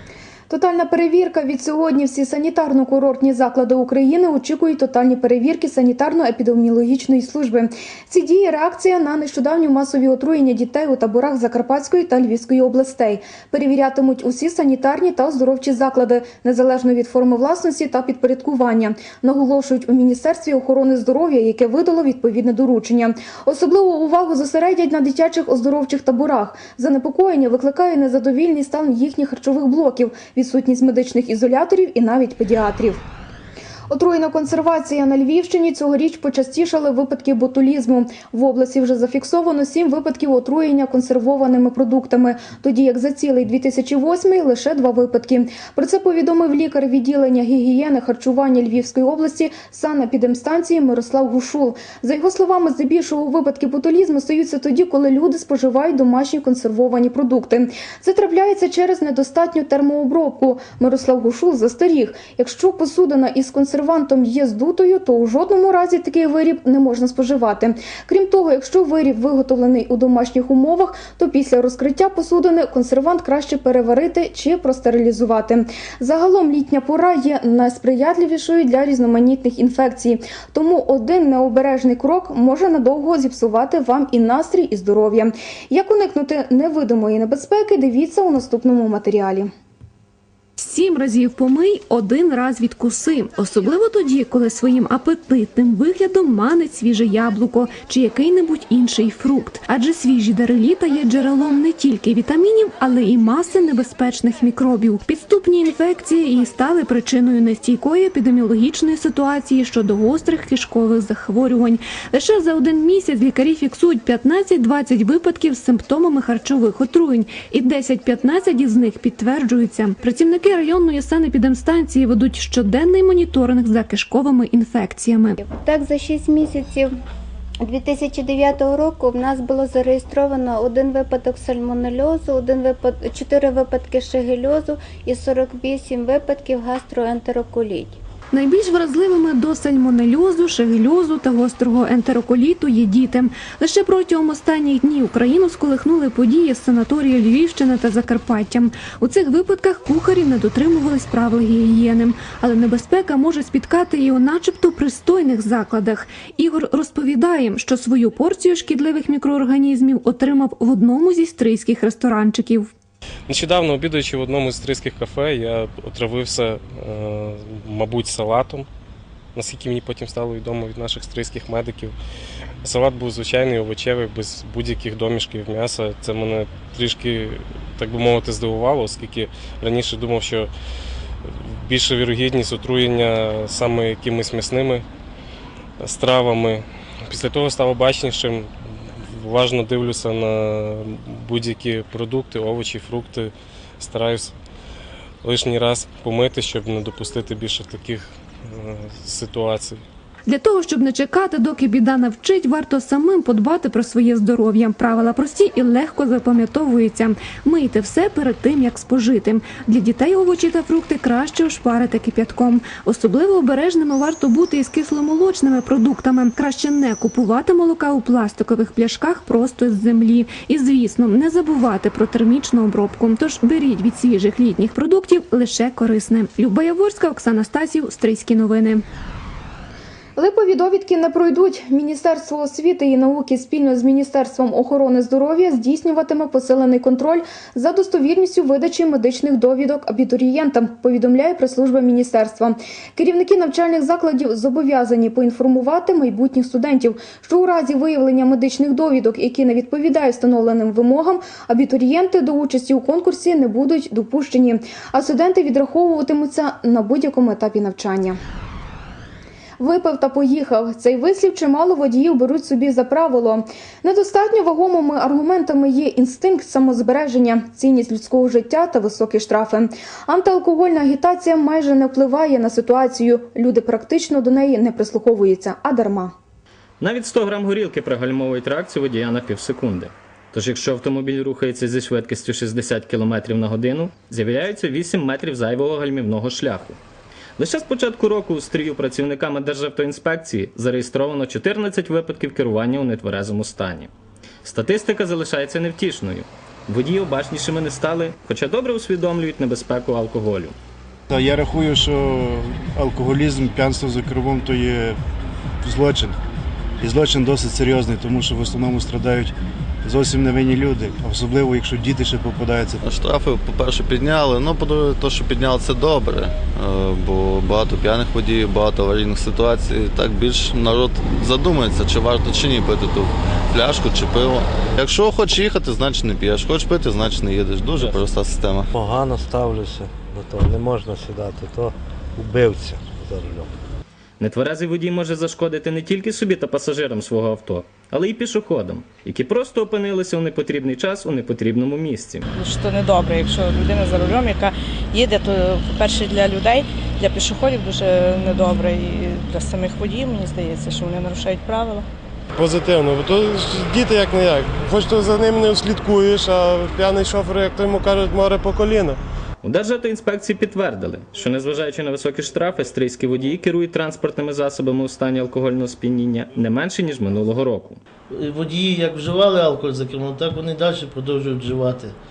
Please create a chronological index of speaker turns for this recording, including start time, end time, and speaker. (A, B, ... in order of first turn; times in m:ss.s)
0:00.5-0:33.0 A
0:33.9-1:29.5 A
1:30.6-2:05.4 B
2:05.4-2:06.9 C
2:07.6-2:18.0 C
2:18.3-2:42.7 B
2:43.3-2:48.7 D
2:49.4-2:51.9 D
2:52.6-3:00.5 D
3:01.2-3:04.9 D
3:05.8-3:14.3 D
3:15.2-3:19.8 D
3:20.3-3:48.8 B
3:50.2-4:18.2 A
4:19.6-4:36.1 A
4:36.8-4:46.8 E
4:47.4-4:53.9 E
4:54.5-5:00.5 E
5:01.1-5:05.0 F
5:05.6-5:06.2 F
5:06.8-5:12.8 F
5:12.8-5:28.7 G
5:28.8-5:33.4 H
5:34.2-5:42.2 E
5:42.4-5:51.9 I
5:52.4-5:59.0 J
5:59.4-6:07.8 E
6:08.1-6:12.0 K